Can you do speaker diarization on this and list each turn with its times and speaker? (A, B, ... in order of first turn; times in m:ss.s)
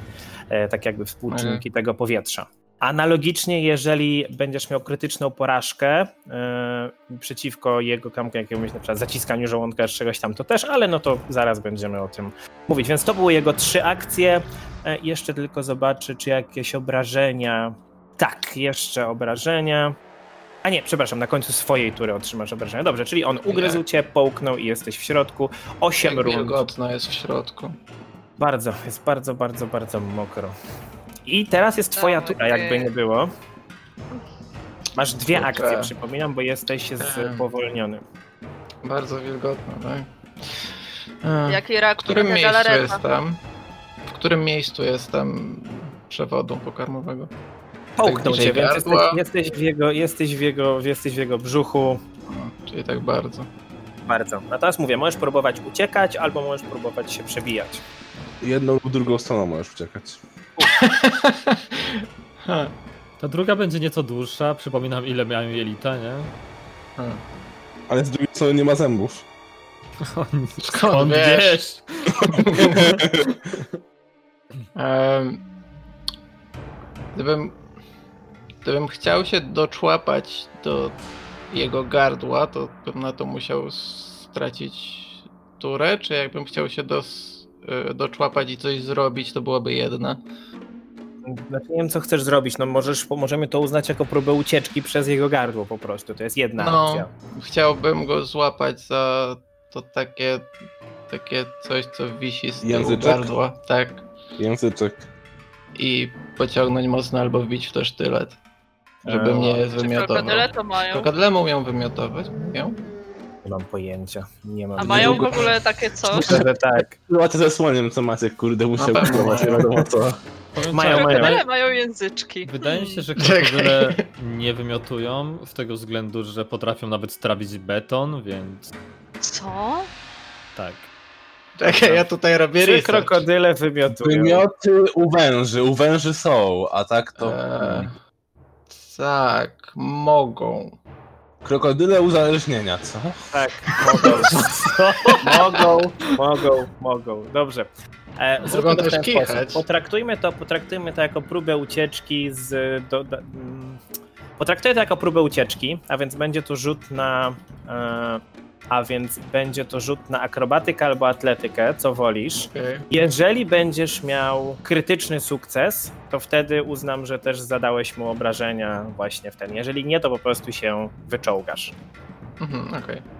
0:00.5-0:20.0 A
0:01.3-0:01.6 B
0:20.6-0:26.6 A
0:23.5-0:23.8 B
0:26.0-0:27.8 B
0:28.4-0:30.6 A
0:31.3-0:33.3 A
0:32.0-0:32.9 C
0:35.0-0:38.0 A
0:35.3-0:35.9 B
0:37.0-0:37.4 B
0:38.8-0:40.1 B
0:41.2-0:43.4 B
0:41.5-0:43.0 C
0:44.1-0:47.3 B
0:48.0-0:52.0 A
0:48.0-0:49.2 B
0:52.3-0:53.5 B
0:54.1-0:57.8 A
0:58.4-1:00.2 D
1:00.6-1:02.7 B
1:03.2-1:06.3 E
1:07.0-1:07.2 B
1:07.9-1:09.2 D
1:10.0-1:13.0 E
1:10.6-1:13.0 B
1:12.8-1:13.4 D
1:14.8-1:15.4 B
1:17.1-1:17.6 B
1:18.6-1:21.0 B
1:21.5-1:30.2 B
1:31.3-1:37.1 A
1:36.6-1:40.5 B
1:41.1-1:44.1 B
1:42.6-1:43.3 D
1:44.4-1:45.1 D
1:45.8-1:48.4 B
1:49.0-1:49.6 A
1:49.1-1:52.8 B
1:49.6-1:51.1 C
1:53.4-1:55.5 A
1:54.8-1:56.4 C
1:54.9-1:55.2 D
1:55.1-1:55.5 B
1:56.1-1:57.0 A
1:57.1-2:00.2 D
1:58.8-1:59.9 B
2:00.5-2:01.4 E
2:00.7-2:01.4 A
2:00.8-2:03.0 C
2:02.5-2:08.7 E
2:03.2-2:04.0 B
2:09.2-2:09.9 C
2:10.6-2:10.9 E
2:11.6-2:13.2 B
2:11.6-2:12.1 E
2:12.6-2:14.5 A
2:14.0-2:17.9 D
2:17.2-2:18.0 B
2:18.7-2:20.8 B
2:21.4-2:23.3 D
2:23.3-2:33.8 A
2:28.4-2:29.6 B
2:34.4-2:51.7 A
2:42.4-2:42.9 B
2:52.4-2:53.0 B